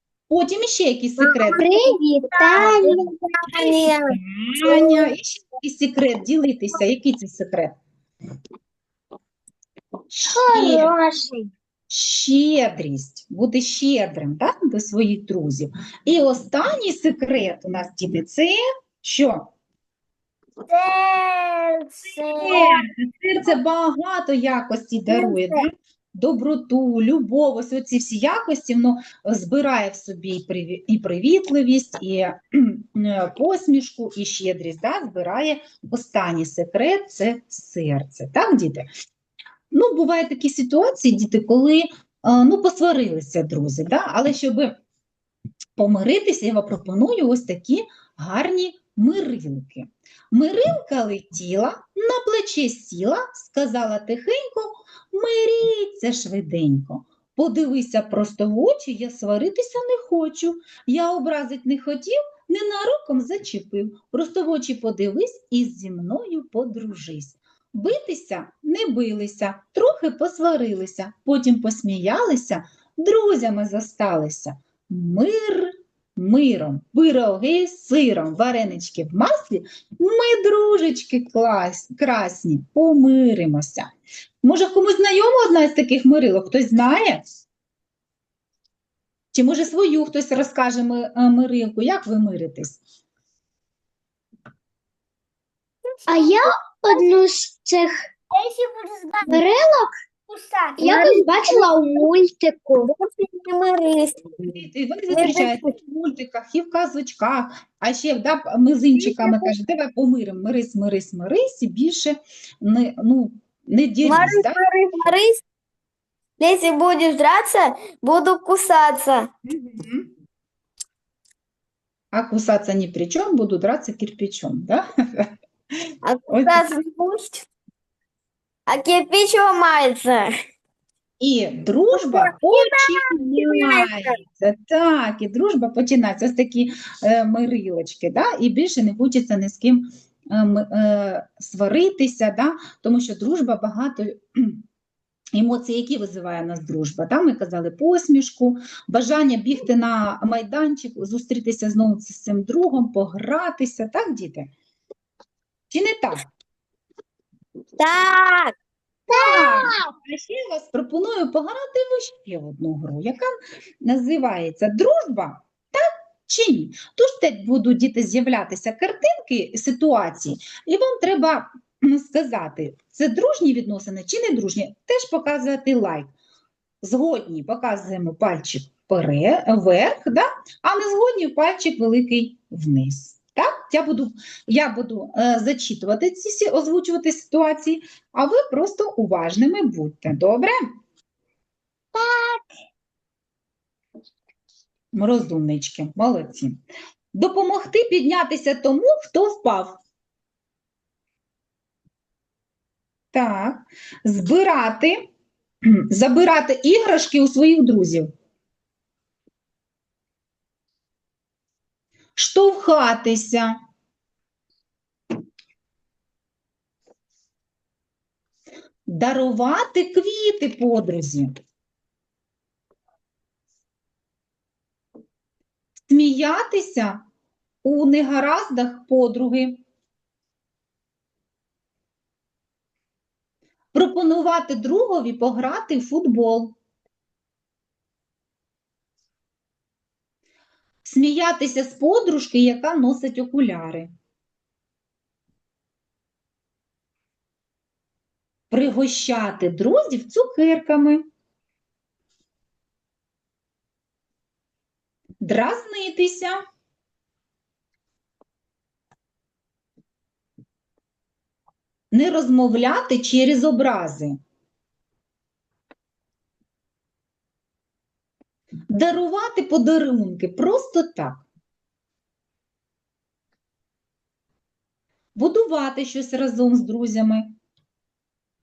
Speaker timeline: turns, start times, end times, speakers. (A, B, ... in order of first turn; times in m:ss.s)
0:00.3-0:01.7 A
0:01.2-0:05.0 B
0:01.5-0:03.0 C
0:02.5-0:03.0 A
0:03.5-0:07.8 A
0:10.1-0:10.9 A
0:10.2-0:11.5 C
0:11.9-0:19.5 A
0:20.7-0:22.8 B
0:22.2-0:38.9 A
0:25.1-0:25.5 B
0:39.7-0:44.8 A
0:45.8-1:23.9 A
1:24.4-1:27.2 A
1:29.3-1:32.8 A
1:36.1-1:38.1 C
1:38.6-1:39.2 B
1:39.3-1:39.9 C
1:40.5-1:42.0 B
1:40.8-1:42.9 C
1:42.8-1:44.5 B
1:44.4-1:54.6 A
1:45.1-1:45.7 B
1:49.0-1:49.5 B
1:54.0-1:55.4 B
1:56.4-1:59.3 B
1:59.4-2:00.1 A
2:02.1-2:05.3 A
2:06.0-2:07.5 B
2:06.3-2:06.8 A
2:08.7-2:10.3 B
2:11.2-2:24.6 A
2:12.0-2:14.2 B
2:25.4-2:34.5 A
2:35.7-2:36.3 A
2:37.8-2:38.5 B
2:39.1-2:56.1 A
2:39.1-2:39.9 C
2:56.8-3:10.7 A
3:11.9-3:12.5 C
3:14.9-3:16.6 A
3:17.1-3:19.8 A
3:23.1-3:25.1 A
3:25.6-3:28.1 A
3:32.2-3:33.6 A
3:38.9-3:41.3 A
3:45.9-3:47.0 A
3:47.6-3:49.6 A
3:53.7-3:56.6 A
4:00.8-4:03.9 A
4:08.5-4:11.0 A
4:15.2-4:16.4 A
4:21.9-4:24.2 A
4:28.7-4:31.2 A
4:35.2-4:37.4 A